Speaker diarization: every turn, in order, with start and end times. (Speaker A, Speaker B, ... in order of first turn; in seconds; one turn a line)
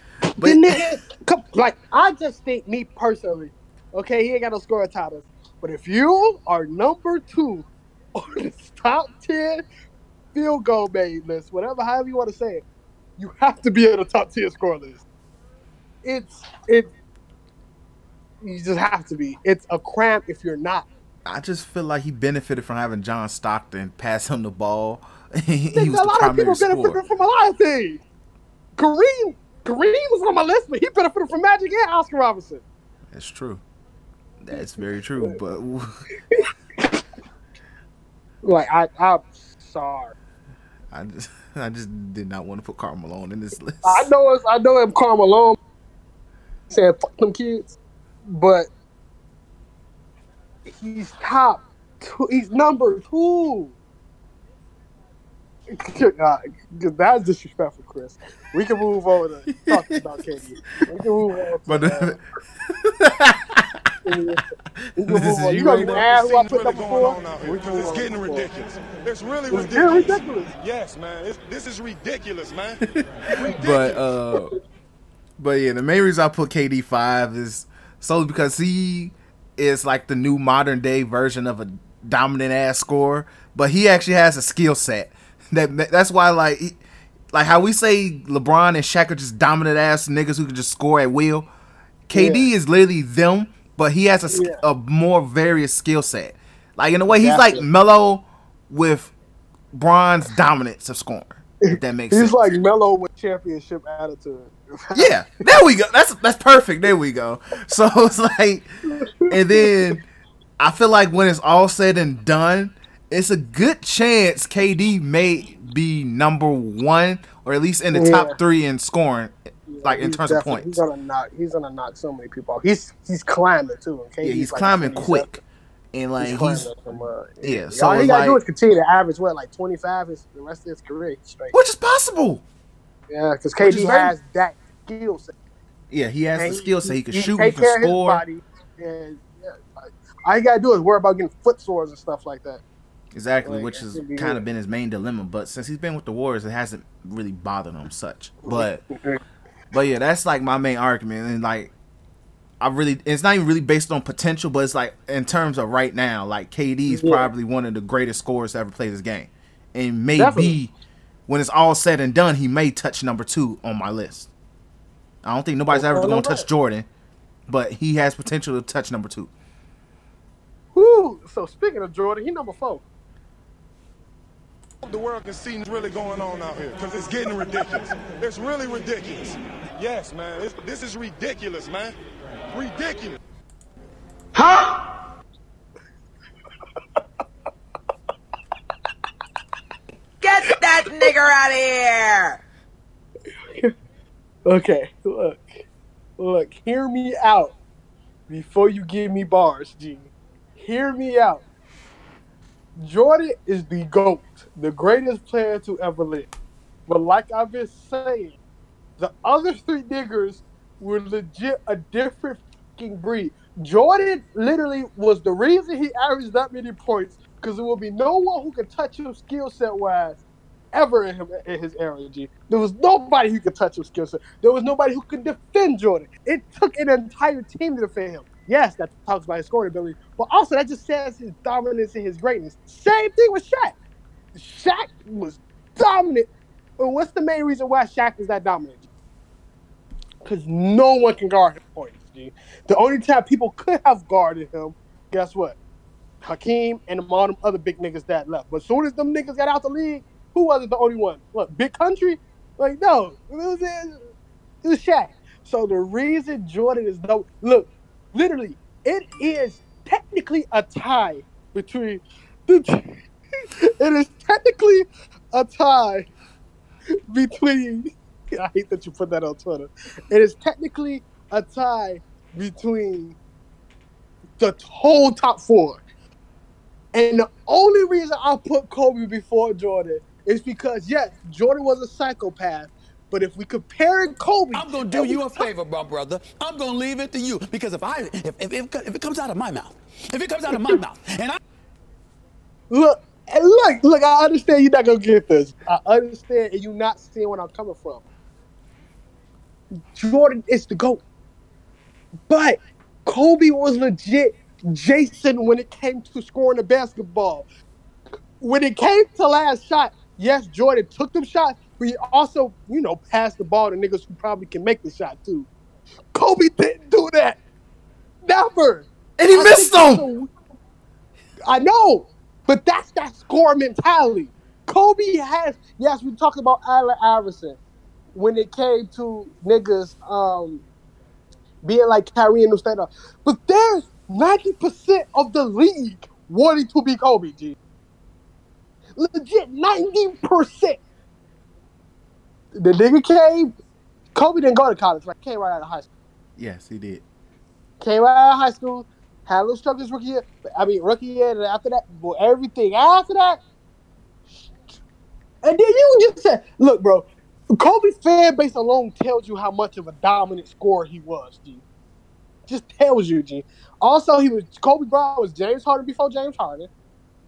Speaker A: 0.4-0.8
Speaker B: 0.4-9.6
Speaker B: 10.3-12.6
Speaker B: 13.2-15.0
Speaker B: 16.0-16.9
Speaker B: 18.4-20.9
Speaker A: 21.3-27.0
Speaker B: 25.7-28.0
Speaker B: 28.8-32.6
Speaker A: 33.1-33.6
Speaker A: 34.4-36.0
Speaker B: 34.5-35.4
Speaker B: 36.3-37.0
Speaker B: 38.4-40.1
Speaker A: 40.9-44.1
Speaker B: 43.8-45.6
Speaker B: 46.7-47.7
Speaker B: 48.2-48.7
Speaker B: 50.7-53.7
Speaker B: 55.7-62.1
Speaker A: 59.6-60.0
Speaker A: 61.7-62.2
Speaker A: 62.7-63.9
Speaker B: 64.0-64.5
Speaker A: 64.9-66.0
Speaker B: 65.0-68.5
Speaker C: 65.8-74.0
Speaker B: 69.5-70.5
Speaker A: 72.9-74.5
Speaker A: 75.4-86.8
Speaker A: 87.3-91.5
Speaker A: 92.1-99.1
Speaker B: 92.1-92.5
Speaker B: 94.3-94.6
Speaker B: 97.1-97.7
Speaker A: 99.7-102.4
Speaker B: 101.6-105.1
Speaker A: 104.9-108.7
Speaker B: 108.9-109.7
Speaker A: 109.3-110.0
Speaker A: 110.6-120.8
Speaker B: 117.9-118.4
Speaker B: 119.7-125.3
Speaker A: 124.2-126.8
Speaker B: 126.2-131.6
Speaker A: 127.4-128.4
Speaker A: 131.5-132.4
Speaker B: 133.1-135.3
Speaker A: 133.6-134.1
Speaker A: 135.9-138.2
Speaker B: 136.4-142.6
Speaker A: 143.1-148.8
Speaker B: 143.4-144.4
Speaker B: 148.4-149.2
Speaker A: 149.7-151.7
Speaker A: 152.6-160.7
Speaker B: 156.9-157.3
Speaker B: 160.2-160.6
Speaker A: 161.3-164.3
Speaker A: 165.2-166.9
Speaker B: 165.7-166.5
Speaker A: 167.5-169.3
Speaker B: 170.8-172.8
Speaker C: 174.8-181.9
Speaker C: 182.5-183.2
Speaker D: 184.4-184.6
Speaker D: 190.2-192.4
Speaker B: 194.5-195.7
Speaker B: 196.2-197.5
Speaker B: 198.3-201.4
Speaker B: 202.8-206.3
Speaker B: 206.9-208.4
Speaker B: 209.0-220.2
Speaker B: 220.7-233.8
Speaker B: 234.3-236.3
Speaker B: 236.8-238.8
Speaker B: 240.2-245.6
Speaker B: 246.2-254.1
Speaker B: 254.6-263.0
Speaker B: 263.6-266.1
Speaker B: 267.1-273.2
Speaker B: 274.4-275.8
Speaker B: 276.9-285.5
Speaker E: 284.5-291.4
Speaker B: 290.5-290.8
Speaker B: 292.7-298.1
Speaker B: 299.9-301.0
Speaker B: 302.3-307.5
Speaker B: 308.4-315.5
Speaker B: 316.1-317.4
Speaker B: 318.2-320.3
Speaker A: 319.2-320.1
Speaker B: 321.5-327.6
Speaker B: 328.1-330.6
Speaker B: 331.6-337.6
Speaker B: 339.0-340.8
Speaker B: 342.6-343.5
Speaker B: 344.1-345.9
Speaker A: 346.4-347.0
Speaker B: 347.8-353.4
Speaker B: 354.4-354.7
Speaker B: 355.4-361.6
Speaker B: 362.5-366.7